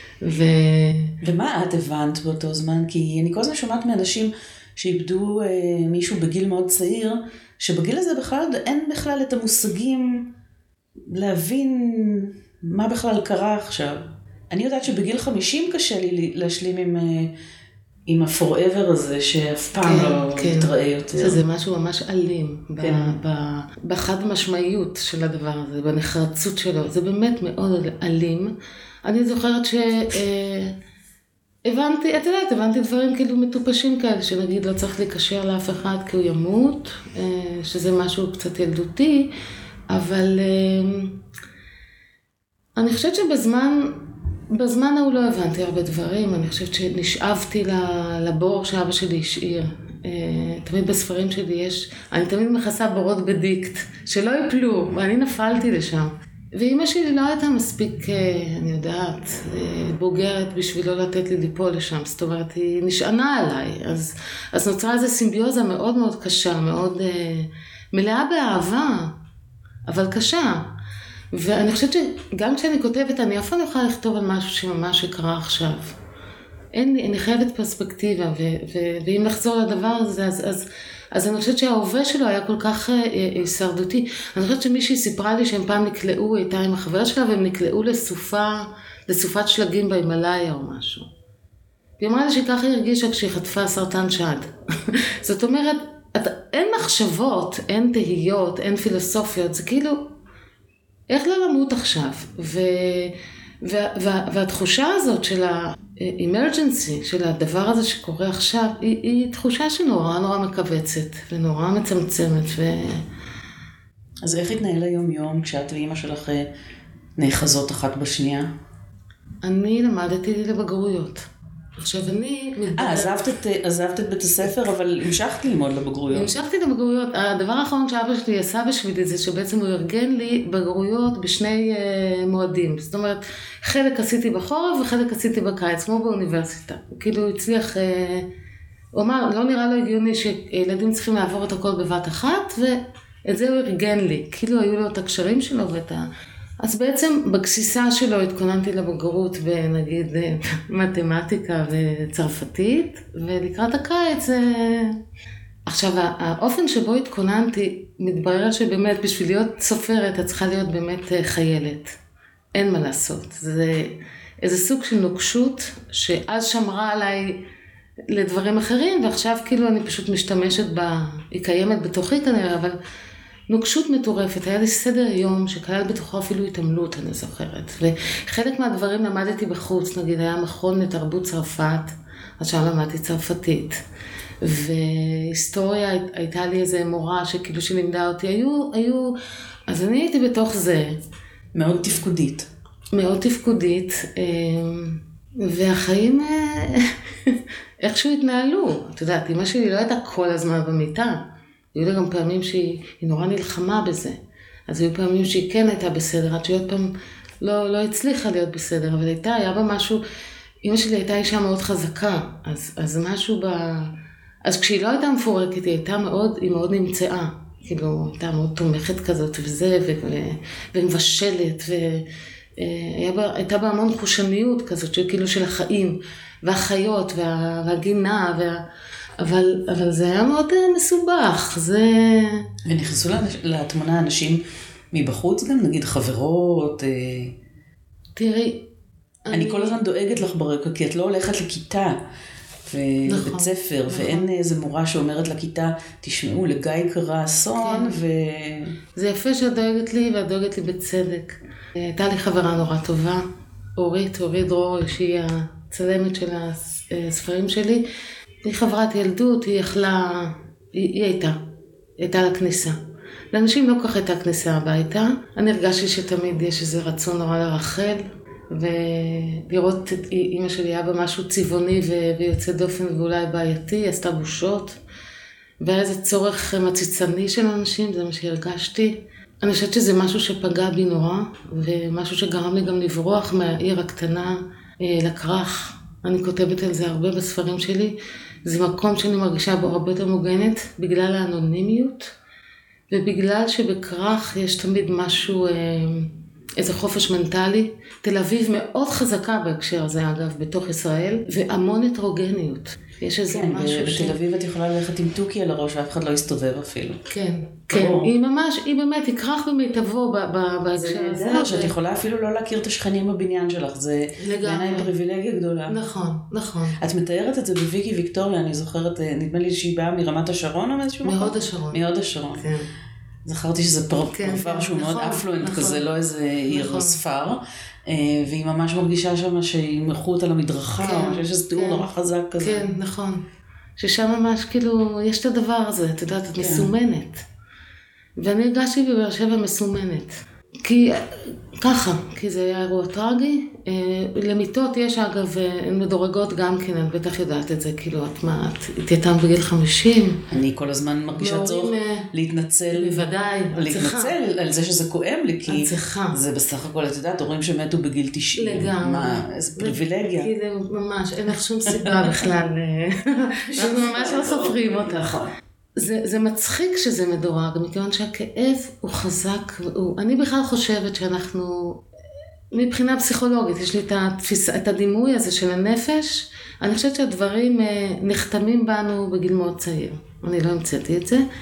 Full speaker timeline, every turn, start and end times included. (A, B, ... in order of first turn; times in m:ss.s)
0:00.2-0:01.1 A
0:01.2-0:10.3 B
0:11.1-0:17.3 B
0:18.1-0:21.4 B
0:19.8-0:28.5 A
0:22.8-0:23.2 B
0:29.0-0:30.7 A
0:31.6-0:39.3 A
0:39.9-0:41.2 A
0:42.8-1:09.1 A
1:09.9-1:10.7 A
1:11.3-1:16.0 A
1:16.7-1:31.1 A
1:32.0-1:40.0 A
1:41.1-1:53.0 A
1:54.2-1:56.5 B
1:57.2-1:58.5 B
1:59.4-2:01.3 A
2:01.8-2:03.2 A
2:02.8-2:06.3 B
2:06.1-2:18.3 A
2:18.9-2:26.1 A
2:26.6-2:35.0 A
2:35.7-2:42.0 A
2:42.5-2:47.4 A
2:48.1-2:52.8 A
2:53.5-3:03.8 A
3:04.4-3:09.2 A
3:09.7-3:11.0 A
3:11.5-3:12.5 B
3:12.9-3:21.2 A
3:21.7-3:30.0 A
3:30.6-3:33.9 A
3:34.4-3:42.0 A
3:42.6-3:48.6 A
3:49.2-3:52.5 A
3:52.6-3:57.3 B
3:58.2-3:58.7 A
3:59.2-3:59.8 A
3:59.3-4:02.0 B
4:02.6-4:08.8 B
4:03.0-4:04.3 A
4:07.6-4:08.0 A
4:09.0-4:13.2 A
4:13.8-4:17.8 A
4:18.4-4:21.4 A
4:22.0-4:22.8 A
4:23.3-4:34.8 A
4:35.6-4:52.1 A
4:52.9-5:04.2 A
5:03.3-5:07.0 B
5:07.1-5:11.7 A
5:07.7-5:08.1 B
5:10.8-5:15.8 B
5:14.2-5:14.9 A
5:15.7-5:16.8 A
5:16.8-5:22.4 B
5:21.0-5:21.8 A
5:22.3-5:22.7 A
5:23.2-5:32.7 B
5:24.1-5:25.8 A
5:26.5-5:27.0 A
5:30.8-5:31.9 A
5:32.4-5:33.2 A
5:33.8-5:37.2 A
5:36.4-5:36.7 B
5:38.2-5:50.2 A
5:50.3-6:00.3 B
5:51.2-5:52.1 A
5:52.7-5:54.2 A
5:55.5-5:56.2 A
5:58.4-6:05.2 A
6:01.7-6:02.2 B
6:03.5-6:05.3 B
6:05.8-6:11.8 A
6:12.5-6:21.2 A